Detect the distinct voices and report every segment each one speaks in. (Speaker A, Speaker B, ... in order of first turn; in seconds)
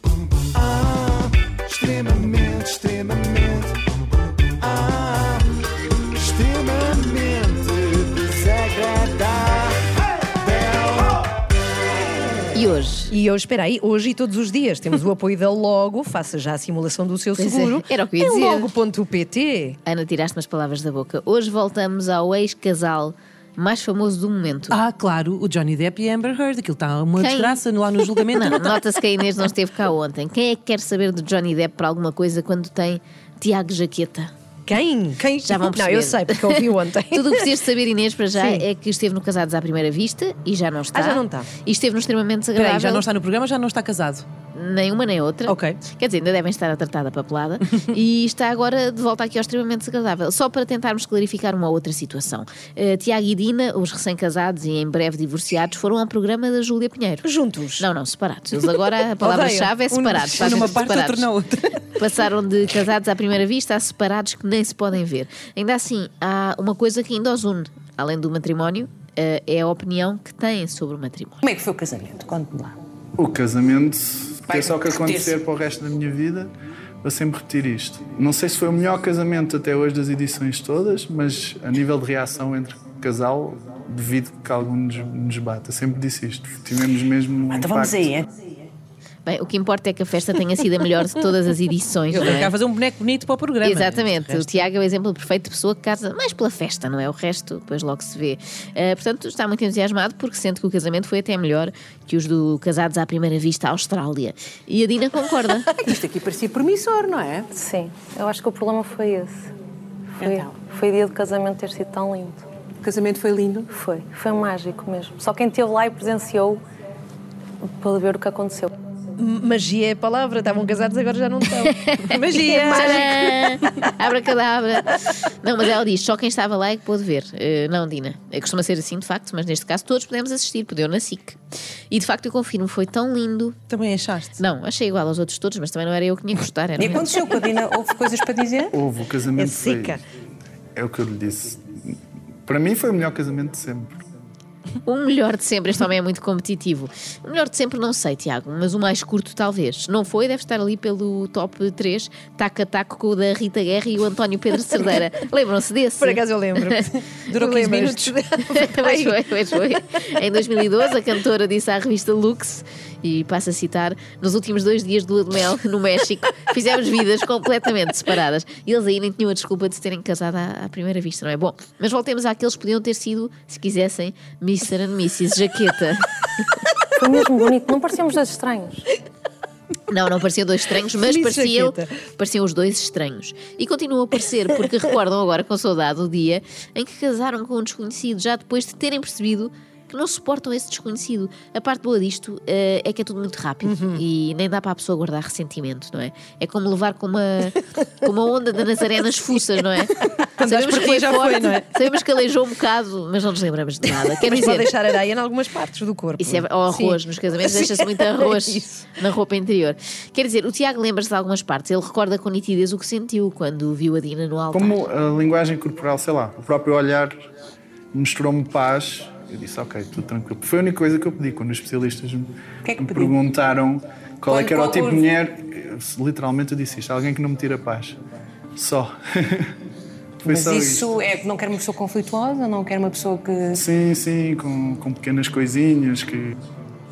Speaker A: 0.5-3.7, 4.6-5.4, 6.1-9.8, 10.4-11.2
Speaker B: 12.5-13.1, 17.3-18.7, 19.8-24.8, 27.1-27.6, 28.3-34.3, 35.4-43.0, 44.5-57.2, 57.8-61.3, 62.0-71.4, 89.2-92.5, 93.6-105.7, 121.6-131.4, 131.9-133.6, 134.4-137.2, 144.8-156.8, 158.4-176.1, 179.9-204.7, 206.2-214.8
Speaker C: 13.1-19.8, 34.7-37.5, 38.3-38.6, 40.9-41.5, 57.2-57.9, 59.2-59.8, 119.2-123.1, 139.3-140.0, 156.0-159.2, 181.0-181.9, 204.2-208.8
Speaker D: 24.7-28.6, 42.5-44.2, 45.5-45.8, 59.9-61.8, 92.1-94.6, 122.1-123.3, 133.7-134.4, 157.1-158.1, 193.6-194.0, 200.4-201.7
Speaker E: 71.4-72.8, 74.5-75.4, 87.5-88.5, 105.8-107.5, 110.2-110.6, 112.8-113.7, 136.8-138.7, 222.6-223.2, 224.3-225.1, 230.2-233.6
Speaker F: 73.2-88.1, 138.7-140.0, 140.8-144.0, 214.5-217.1, 217.9-228.0, 228.6-229.5, 230.2-230.9, 233.5-236.3
Speaker G: 107.5-109.3, 110.2-112.4, 113.7-116.6, 117.6-118.7, 176.9-178.8